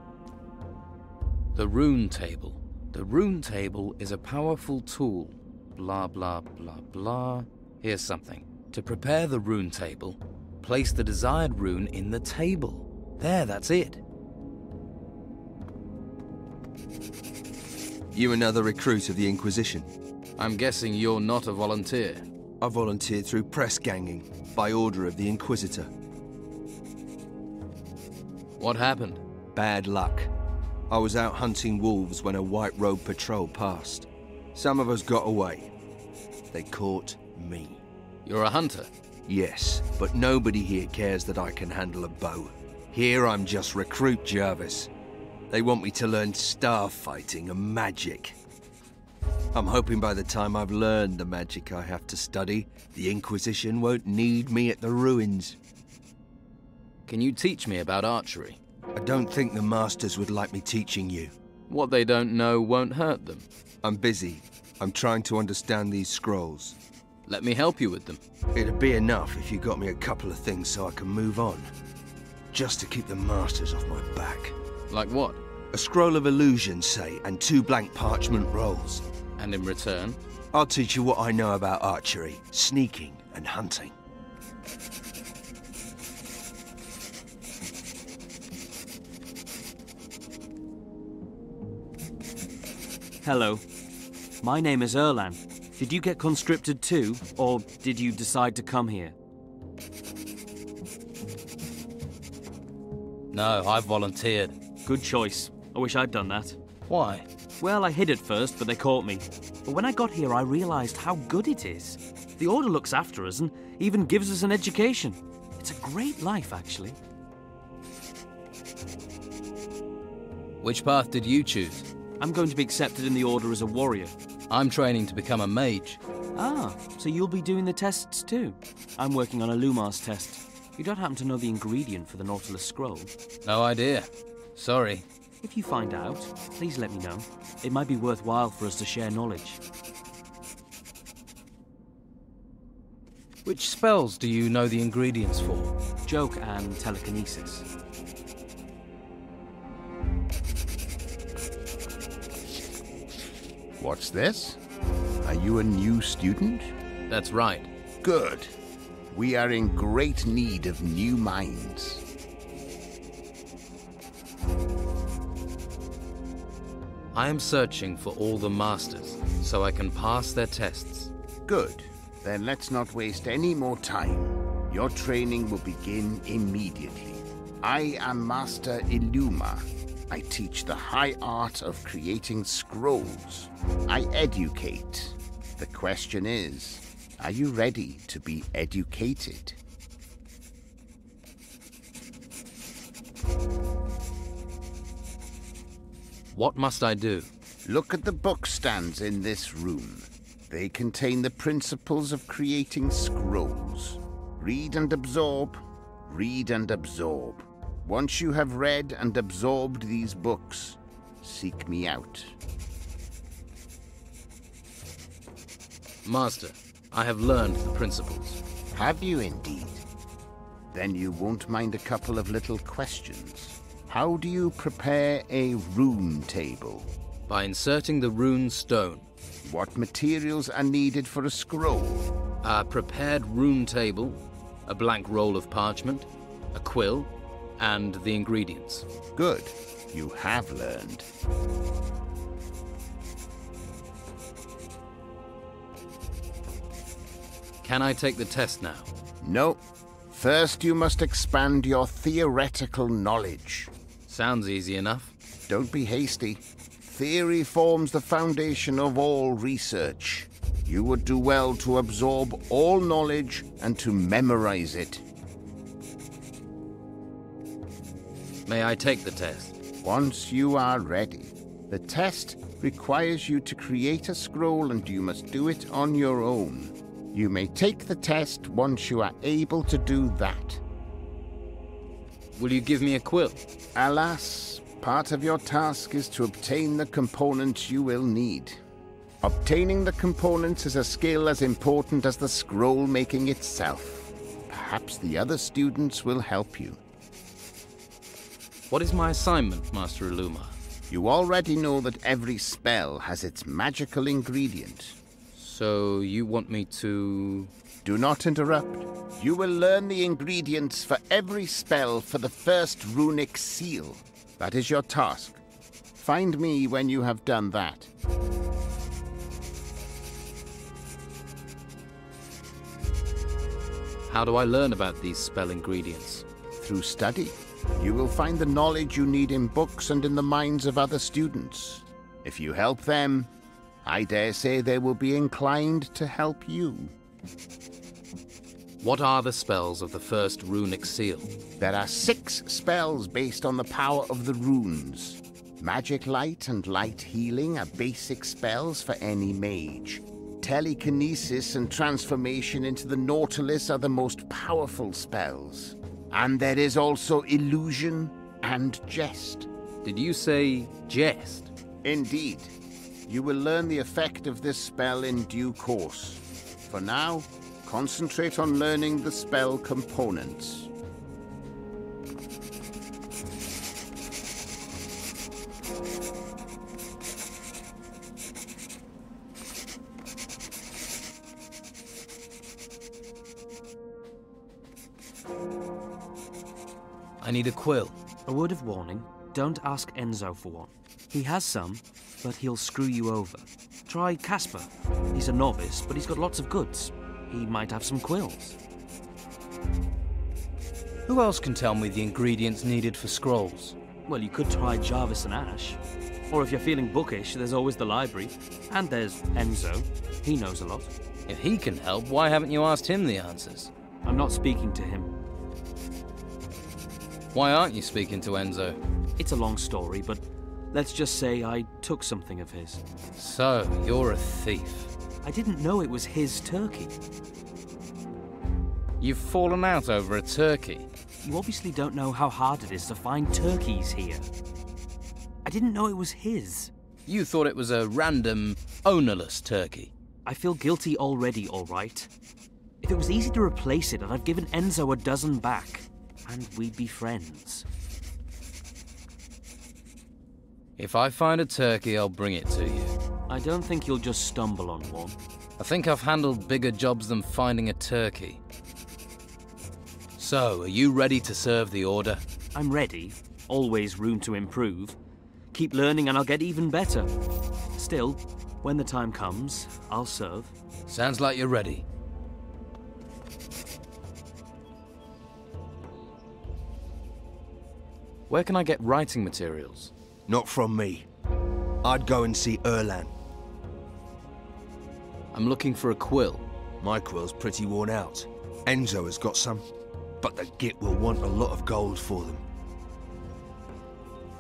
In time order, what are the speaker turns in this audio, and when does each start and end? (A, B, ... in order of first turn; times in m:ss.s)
0:01.5-0:14.0 A
0:18.1-0:19.9 B
0:20.4-0:22.3 A
0:22.6-0:25.9 B
0:28.6-0:29.2 A
0:29.5-0:30.3 B
0:30.9-0:35.7 B
0:36.5-0:37.8 B
0:38.2-0:38.9 A
0:39.3-0:44.9 B
0:45.5-0:48.4 B
0:49.5-0:55.6 B
0:57.1-0:58.6 A
0:59.0-1:01.3 B
1:01.7-1:03.5 A
1:03.8-1:06.8 B
1:07.3-1:08.2 A
1:08.5-1:11.7 B
1:12.5-1:14.6 B
1:14.9-1:15.4 A
1:15.7-1:19.0 B
1:19.4-1:20.2 A
1:20.5-1:23.9 B
1:33.2-1:33.6 C
1:34.4-1:39.1 C
1:43.3-1:44.6 A
1:44.8-1:46.6 C
1:46.9-1:47.2 A
1:47.6-1:57.0 C
2:00.6-2:01.9 A
2:02.2-2:04.1 C
2:04.5-2:06.0 A
2:06.4-2:13.1 C
2:13.4-2:15.0 A
2:15.4-2:19.6 C
2:23.4-2:25.7 A
2:26.0-2:27.7 C
2:33.8-2:34.6 D
2:35.2-2:36.7 D
2:37.1-2:37.7 A
2:38.0-2:38.5 D
2:39.1-2:42.0 D
2:47.1-2:51.1 A
2:51.5-3:09.6 D
3:16.3-3:17.3 A
3:17.7-3:32.3 D
3:36.0-3:38.4 A
3:38.8-3:39.8 D
3:40.7-3:46.9 D
3:47.3-3:49.0 A
3:49.4-3:52.1 D
3:52.4-3:58.8 A
3:59.2-4:01.0 D
4:07.6-4:08.9 A
4:09.2-4:13.7 D
4:14.1-4:15.1 A
4:15.5-4:25.0 D
4:28.5-4:29.6 A
4:29.8-4:40.6 D
4:42.4-4:43.4 A
4:43.8-4:48.6 D
4:49.2-4:56.8 D
4:58.7-5:00.6 A
5:00.9-5:05.0 D
5:05.3-5:07.5 A
5:07.8-5:15.4 D
5:16.0-5:17.9 D
5:24.1-5:26.2 A
5:26.6-5:33.3 D
5:33.8-5:36.9 D
5:38.8-5:41.3 A
5:41.6-5:59.5 D
5:59.8-6:01.5 A
6:01.8-6:02.5 D
6:03.1-6:10.7 D
6:27.2-6:28.0 A
6:28.2-6:38.6 C
6:41.1-6:43.8 A
6:44.1-6:50.9 C
6:51.3-6:53.7 A
6:54.0-6:55.1 C
6:57.3-6:58.8 A
6:59.2-7:02.8 C
7:03.2-7:04.9 A
7:05.2-7:06.9 C
7:09.0-7:10.9 A
7:11.2-7:14.3 C
7:15.4-7:16.7 C
7:17.1-7:19.9 A
7:20.2-7:22.1 C
7:22.8-7:27.7 C
7:30.8-7:32.9 A
7:33.3-7:35.2 C
7:35.6-7:38.4 A
7:40.2-7:42.2 A
7:42.6-7:45.0 C
7:45.5-7:47.1 C
7:47.8-7:50.6 C
7:50.9-7:51.8 A
7:58.3-7:59.9 A
8:00.3-8:01.1 B
8:01.8-8:03.1 B
8:05.3-8:06.5 A
8:06.8-8:09.6 B
8:10.2-8:12.4 B